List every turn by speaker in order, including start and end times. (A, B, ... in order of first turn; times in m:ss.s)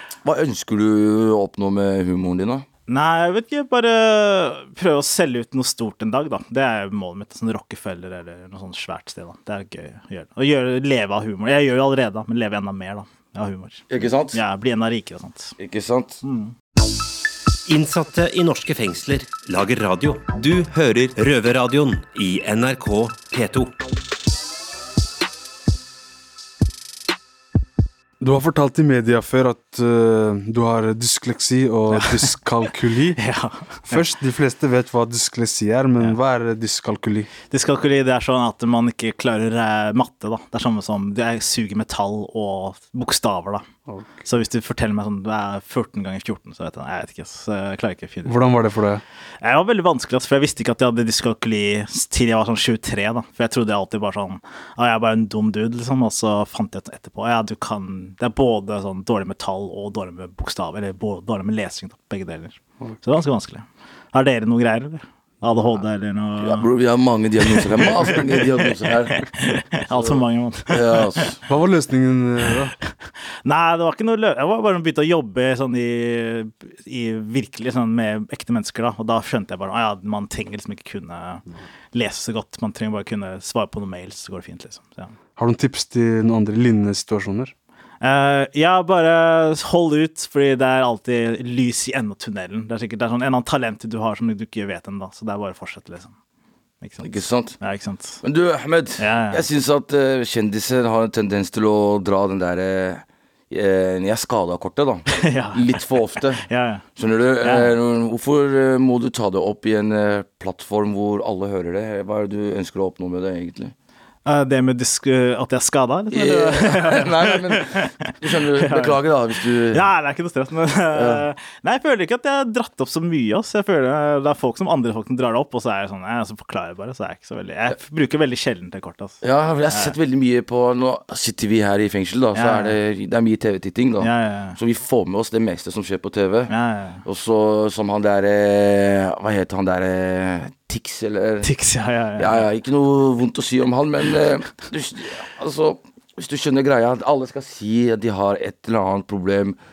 0:00.2-0:02.7 A
0:02.9-0:15.6 B
0:13.9-0:14.4 A
0:15.6-0:16.2 A
0:16.2-0:16.5 B
0:17.7-0:23.8 C
0:28.2-0:33.2 D
0:31.9-0:34.0 B
0:33.9-0:37.3 D
0:37.5-0:43.6 B
0:43.9-0:44.2 D
0:44.2-0:48.5 B
0:48.2-0:49.0 D
0:49.4-1:06.7 B
1:06.4-1:09.3 A
1:07.4-1:11.3 B
1:10.7-1:11.4 A
1:11.5-1:12.8 D
1:13.4-1:25.2 B
1:25.4-1:27.5 D
1:28.0-1:36.1 B
1:36.8-1:38.2 B
1:37.0-1:37.6 A
1:38.2-1:46.4 A
1:39.0-1:39.4 B
1:45.1-1:45.6 B
1:46.4-1:46.8 B
1:47.0-1:53.7 A
1:47.4-1:47.7 B
1:54.2-1:59.0 B
1:56.1-1:59.8 A
1:59.7-2:10.0 B
2:00.9-2:01.2 A
2:09.2-2:16.5 A
2:12.4-2:12.8 B
2:14.0-2:14.6 B
2:16.5-2:17.0 B
2:17.0-2:21.5 A
2:21.4-2:22.4 B
2:22.2-2:29.6 A